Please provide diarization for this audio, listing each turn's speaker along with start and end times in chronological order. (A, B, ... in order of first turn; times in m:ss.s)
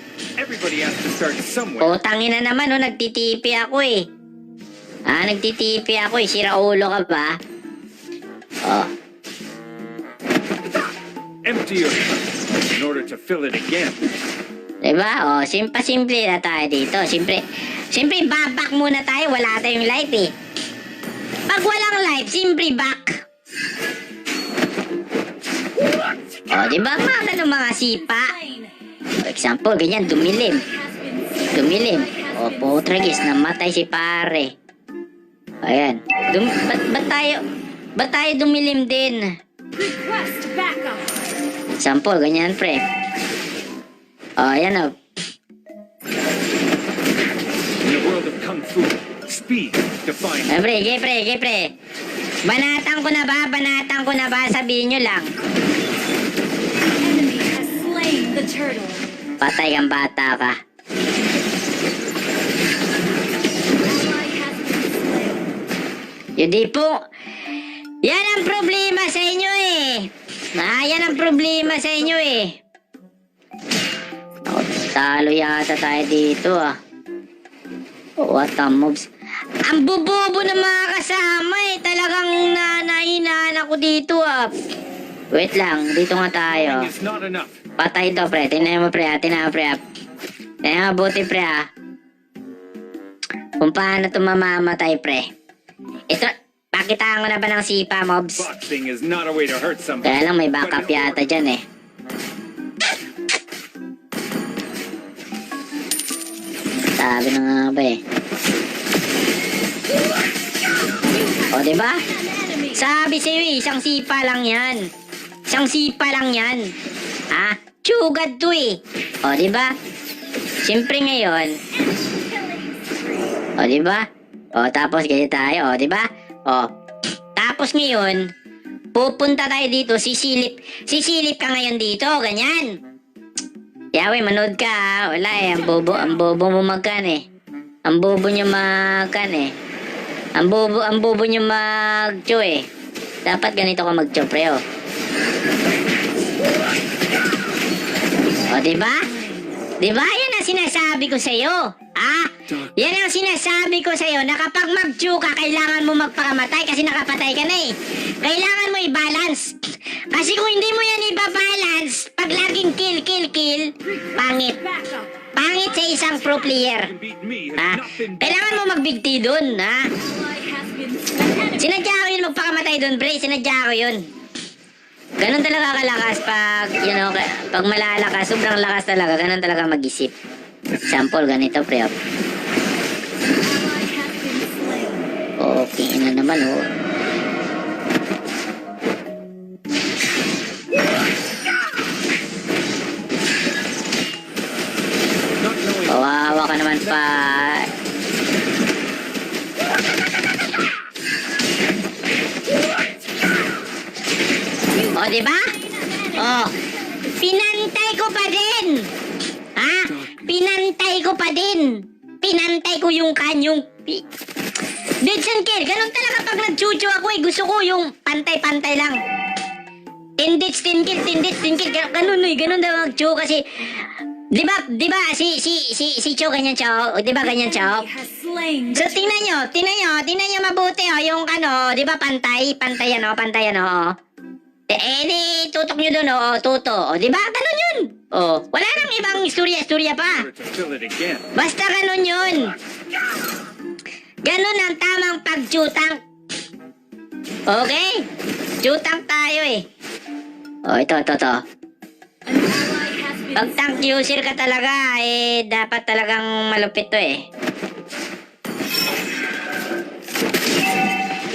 0:00.4-0:02.0 A
0:01.8-0:04.0 B
0:05.1-0:07.3 B
0:08.6-0:08.9 B
0:11.4-0:12.2 A
0:12.7-0:14.0 A
0:14.8-0:20.3 B
0:21.5-0:23.2 B
0:26.5-0:28.3 B
0:28.2-0:28.7 C
0:29.2-0:30.6 B
0:30.6-0:32.8 C
0:31.5-0:34.5 B
0:35.6-0:37.4 B
0:38.0-0:39.2 B
0:39.7-0:41.1 C
0:41.8-0:42.8 B
0:44.4-0:44.9 B
0:47.8-0:50.6 A
0:50.5-0:51.7 B
0:52.5-0:55.3 B
0:57.0-0:59.0 C
0:59.4-1:00.6 B
1:03.8-1:05.4 C
1:06.4-1:06.9 B
1:08.0-1:12.5 B
1:14.4-1:16.7 B
1:18.2-1:19.0 B
1:19.7-1:24.5 B
1:25.3-1:26.9 B
1:26.6-1:27.6 A
1:27.8-1:29.8 B
1:30.6-1:31.6 B
1:33.6-1:35.2 B
1:36.1-1:38.4 B
1:38.4-1:41.2 A
1:40.0-1:41.6 B
1:46.9-1:48.0 B
1:51.0-1:52.8 C
1:51.5-1:52.0 B
1:52.7-1:54.9 B
1:55.5-1:56.7 B
1:57.3-1:59.7 B
2:00.6-2:01.6 B
2:01.7-2:03.4 C
2:03.6-2:04.0 B
2:04.6-2:06.7 B
2:07.4-2:08.2 B
2:08.9-2:12.7 B
2:13.9-2:17.2 B
2:15.7-2:16.2 C
2:17.9-2:19.5 B
2:20.4-2:22.6 B
2:23.2-2:24.6 B
2:28.5-2:29.1 B
2:29.8-2:39.5 B
2:40.1-2:44.6 B
2:44.0-2:45.3 C
2:45.4-2:46.9 B
2:46.7-2:48.5 A
2:47.6-2:49.9 B
2:50.0-2:51.7 C
2:51.6-2:54.0 B
2:55.2-3:00.1 B
3:00.8-3:01.9 B
3:03.2-3:05.1 C
3:05.4-3:06.6 B
3:15.4-3:17.1 A
3:15.9-3:17.7 B
3:24.7-3:26.4 C
3:24.9-3:25.5 B
3:26.1-3:26.5 B
3:27.2-3:28.9 B
3:29.6-3:34.0 B
3:35.0-3:39.0 B
3:40.2-3:47.8 B
3:47.2-3:49.0 C
3:48.7-3:53.9 B
3:54.7-4:00.2 B
4:00.1-4:01.3 A
4:01.3-4:02.5 B
4:04.2-4:06.0 B
4:07.5-4:08.0 B
4:08.6-4:09.6 B
4:10.7-4:11.4 B
4:12.2-4:13.8 C
4:13.4-4:17.2 B